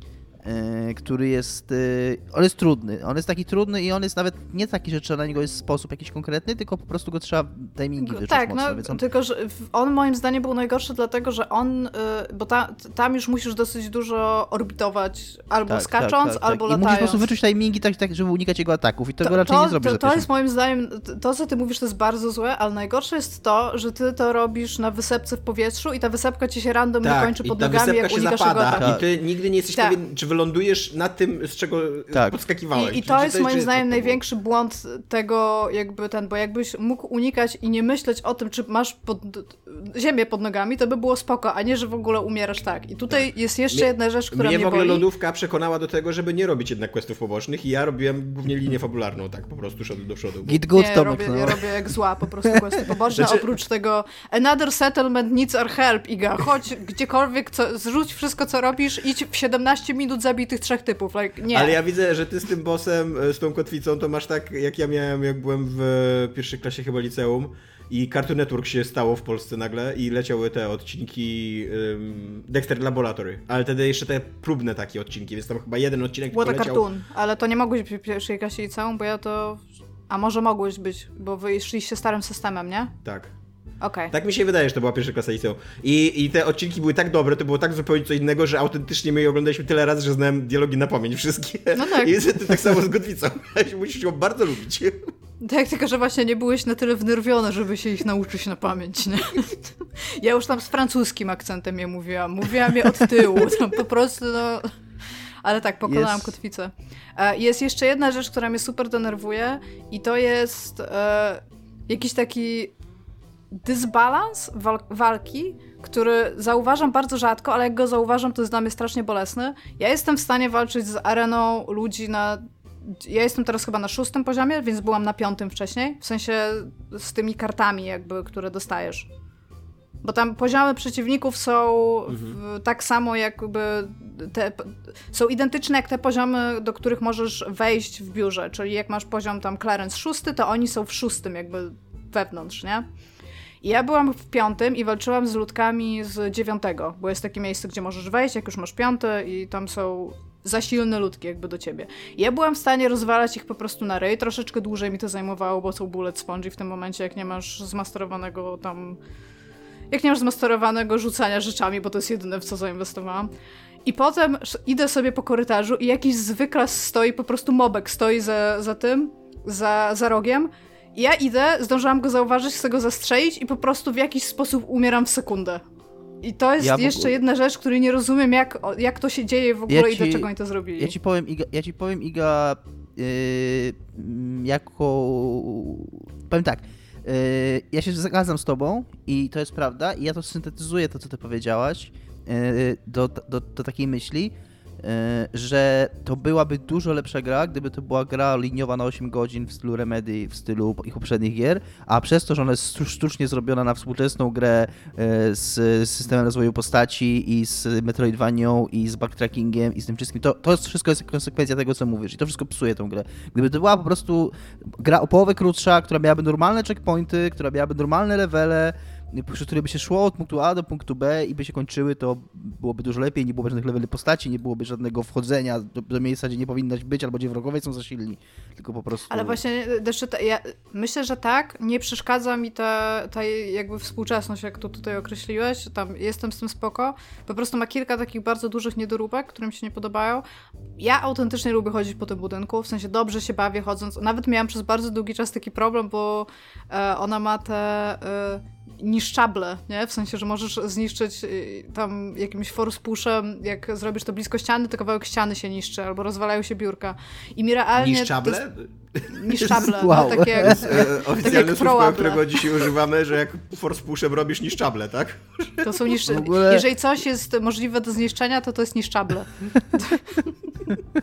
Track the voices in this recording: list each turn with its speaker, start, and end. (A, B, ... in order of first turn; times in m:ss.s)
0:00.4-0:09.0 A
0:08.0-0:17.2 B
0:15.7-0:20.3 A
0:19.2-0:28.9 B
0:27.0-0:34.2 C
0:28.7-0:29.0 A
0:32.8-0:45.0 B
0:43.1-0:50.6 C
0:50.5-0:51.6 A
0:50.7-1:01.8 B
0:52.4-0:52.8 A
1:01.5-1:16.8 C
1:16.3-1:22.9 B
1:23.0-1:23.3 C
1:23.8-1:24.1 B
1:24.1-1:35.1 C
1:31.8-1:32.3 B
1:35.4-1:44.7 B
1:45.4-1:52.7 B
1:45.9-1:46.4 A
1:53.5-2:09.1 B
2:10.0-2:22.9 B
2:12.1-2:12.4 C
2:23.6-2:39.0 B
2:39.9-2:43.3 B
2:43.8-2:55.6 B
2:56.2-3:00.9 B
2:56.6-2:57.2 A
2:59.7-3:49.4 A
3:49.1-4:00.2 B
4:00.8-4:18.4 B
4:17.8-4:19.7 C
4:19.1-4:22.4 B
4:19.5-4:20.9 A
4:20.4-4:25.8 C
4:25.6-4:30.3 B
4:26.1-4:26.7 A